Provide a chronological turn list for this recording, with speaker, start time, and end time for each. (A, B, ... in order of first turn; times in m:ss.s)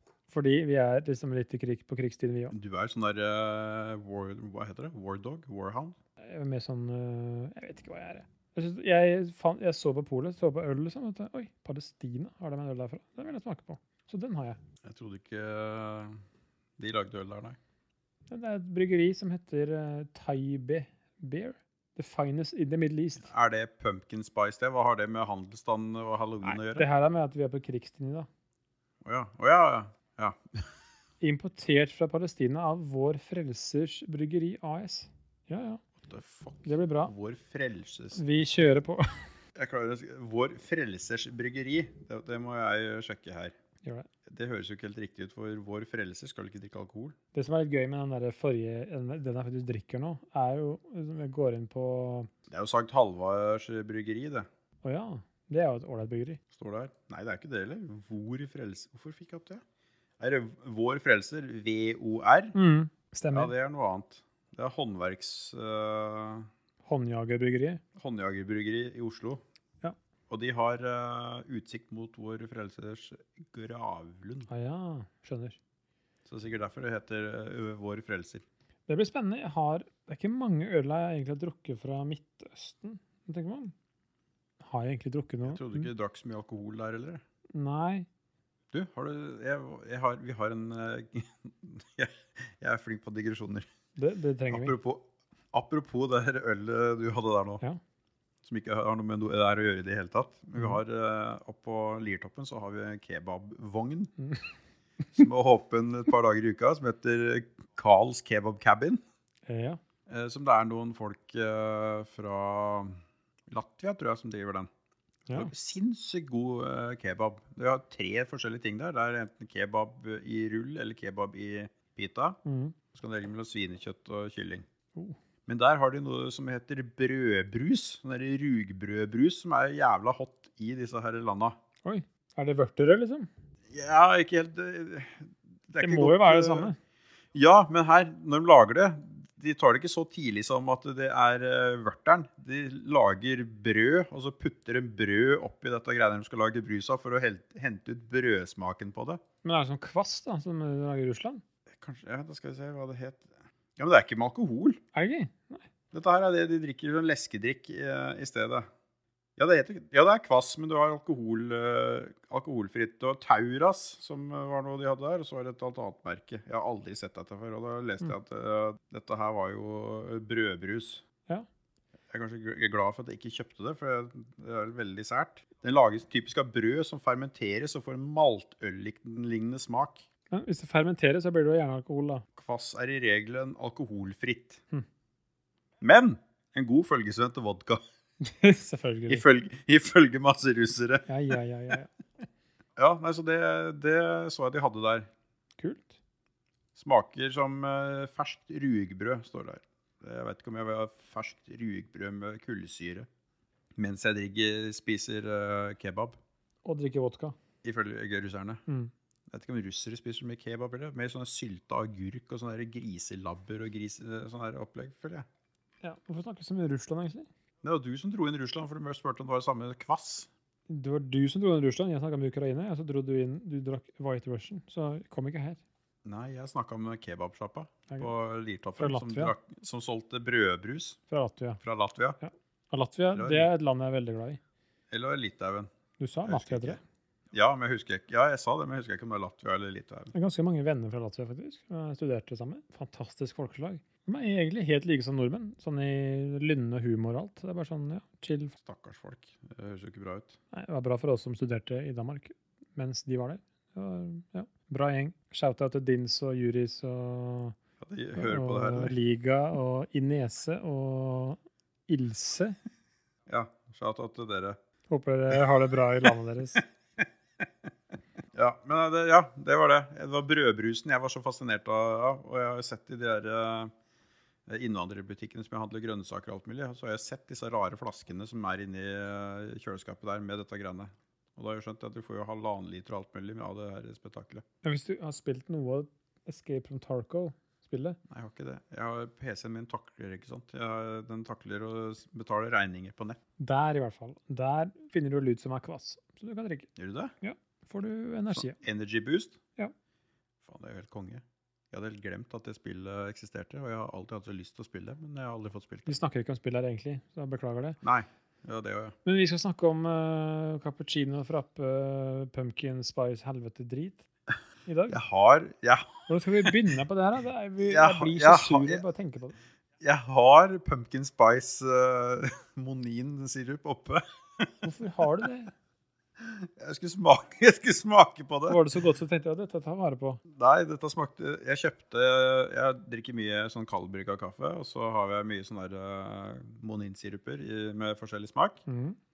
0:00.3-0:02.6 A
0:02.5-0:06.0 B
0:06.2-0:14.6 A
0:14.8-0:16.2 B
0:16.8-0:17.6 B
0:18.3-0:23.3 A
0:23.2-0:26.9 B
0:26.4-0:28.3 A
0:29.0-0:30.7 B
0:31.2-0:35.8 A
0:36.0-0:38.2 B
0:36.6-0:37.1 A
0:38.1-0:39.1 A
0:39.6-0:43.6 B
0:44.3-0:47.2 B
0:47.3-0:52.3 A
0:52.5-0:54.5 B
0:54.8-0:56.4 A
0:56.5-0:59.6 B
1:00.2-1:02.6 B
1:02.6-1:03.5 A
1:03.3-1:06.5 B
1:06.8-1:07.8 A
1:08.0-1:09.4 B
1:10.3-1:14.5 B
1:14.5-1:15.6 A
1:16.3-1:18.4 B
1:18.9-1:23.7 A
1:24.6-1:25.9 A
1:25.4-1:27.2 B
1:27.5-1:28.1 A
1:28.7-1:33.7 B
1:34.0-1:34.7 A
1:34.5-1:37.6 B
1:38.4-1:44.1 B
1:45.1-1:49.0 B
1:49.5-1:49.8 A
1:50.1-1:54.7 B
1:55.3-2:02.4 B
2:02.4-2:02.7 A
2:02.9-2:04.6 B
2:05.5-2:11.6 B
2:11.8-2:13.3 A
2:13.7-2:16.7 B
2:15.8-2:16.8 A
2:17.3-2:29.2 B
2:29.4-2:31.4 A
2:31.8-2:33.3 B
2:33.8-2:34.8 B
2:34.9-2:35.6 A
2:35.9-2:38.7 B
2:39.4-2:51.0 B
2:52.1-3:00.0 B
3:00.3-3:02.2 A
3:02.4-3:04.6 B
3:05.8-3:07.8 B
3:08.2-3:09.2 A
3:09.1-3:11.1 B
3:11.1-3:11.9 A
3:12.8-3:15.1 B
3:15.6-3:15.9 A
3:16.7-3:23.1 B
3:23.8-3:26.2 B
3:26.6-3:27.4 A
3:27.6-3:28.6 B
3:29.3-3:35.3 B
3:35.8-3:37.3 A
3:37.6-3:40.3 B
3:40.7-3:45.6 A
3:46.0-3:51.0 B
3:48.8-3:49.3 A
3:51.1-3:51.6 A
3:51.6-3:52.2 B
3:52.2-3:54.4 A
3:53.1-3:53.5 B
3:54.9-3:55.7 B
3:56.0-3:56.8 A
3:56.2-3:56.8 B
3:57.3-4:00.1 B
4:00.1-4:08.6 A
4:08.6-4:10.4 B
4:10.5-4:17.6 A
4:17.8-4:18.9 B
4:18.2-4:22.6 A
4:23.3-4:24.6 B
4:24.9-4:26.6 A
4:26.6-4:27.0 B
4:28.4-4:33.7 B
4:34.5-4:44.4 B
4:44.6-4:48.0 A
4:48.1-4:53.2 B
4:53.4-4:56.7 A
4:56.8-4:57.1 B
4:57.2-4:58.6 A
4:58.3-4:59.4 B
5:00.4-5:06.0 B
5:05.9-5:07.8 A
5:07.8-5:08.9 B
5:09.0-5:14.0 A
5:14.6-5:15.0 A
5:14.9-5:16.6 B
5:16.1-5:19.4 A
5:17.6-5:18.8 B
5:19.8-5:24.6 B
5:24.6-5:25.5 A
5:26.2-5:28.6 B
5:28.5-5:30.2 A
5:30.3-5:38.6 B
5:38.7-5:39.0 A